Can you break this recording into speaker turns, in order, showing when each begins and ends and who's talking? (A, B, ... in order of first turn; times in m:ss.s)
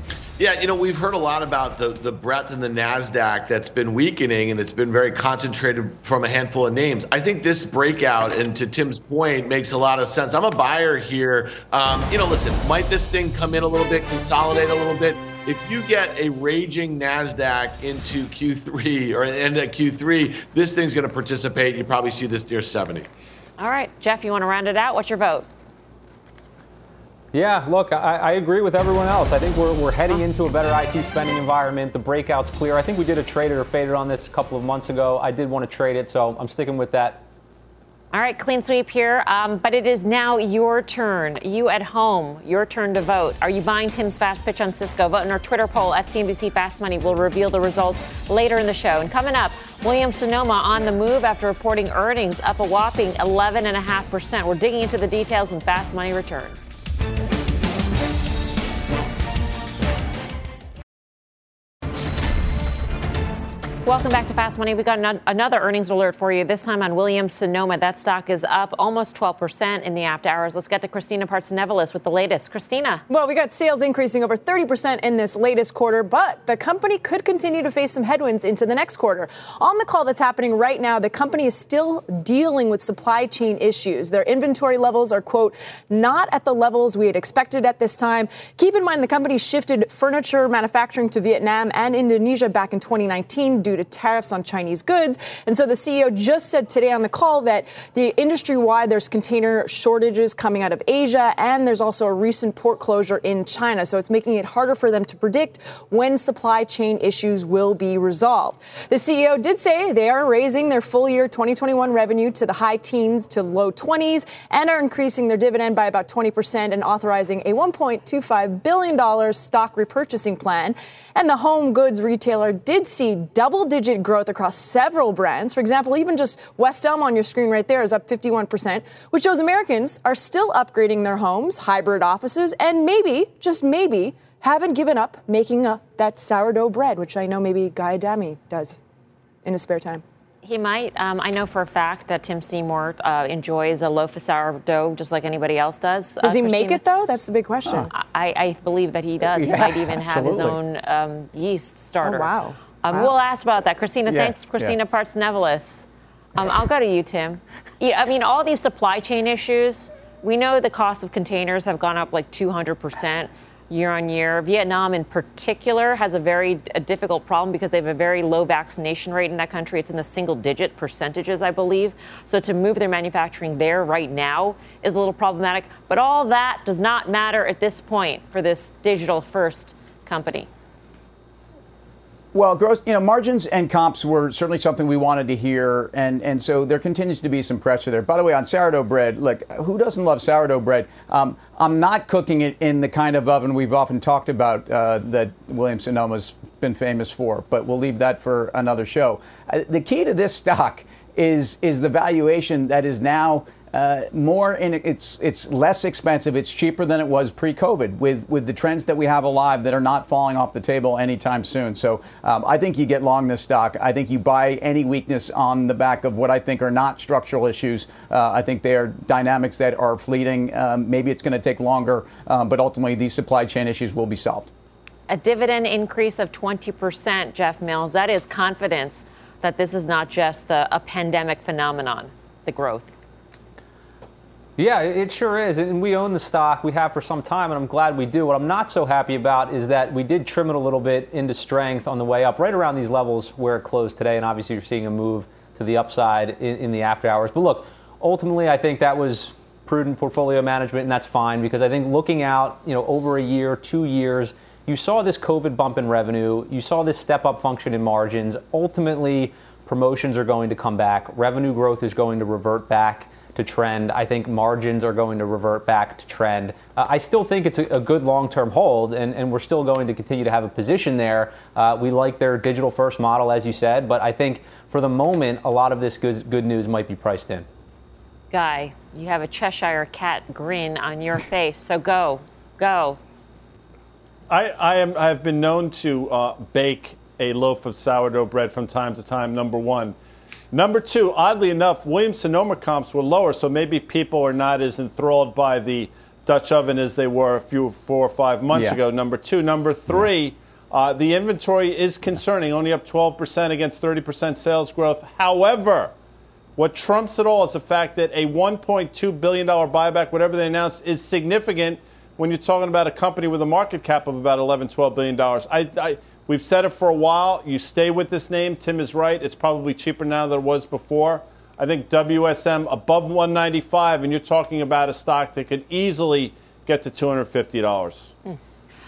0:00.4-0:23.1 A
0:23.6-0:25.5 B
0:27.3-0:37.2 C
0:38.1-0:56.7 B
1:03.8-1:13.0 B
1:13.1-2:18.8 D
2:19.4-2:20.0 D
2:20.4-2:26.8 B
2:26.2-2:27.9 D
2:27.9-3:00.5 B
2:29.2-2:30.6 E
2:32.0-2:33.1 D
2:34.0-2:34.8 E
3:02.3-3:44.5 E
3:45.1-3:52.9 B
3:54.6-4:37.5 C
4:38.3-4:43.0 B
4:44.3-4:50.0 F
4:50.5-5:05.9 F
4:58.5-4:58.8 E
5:06.6-5:28.1 F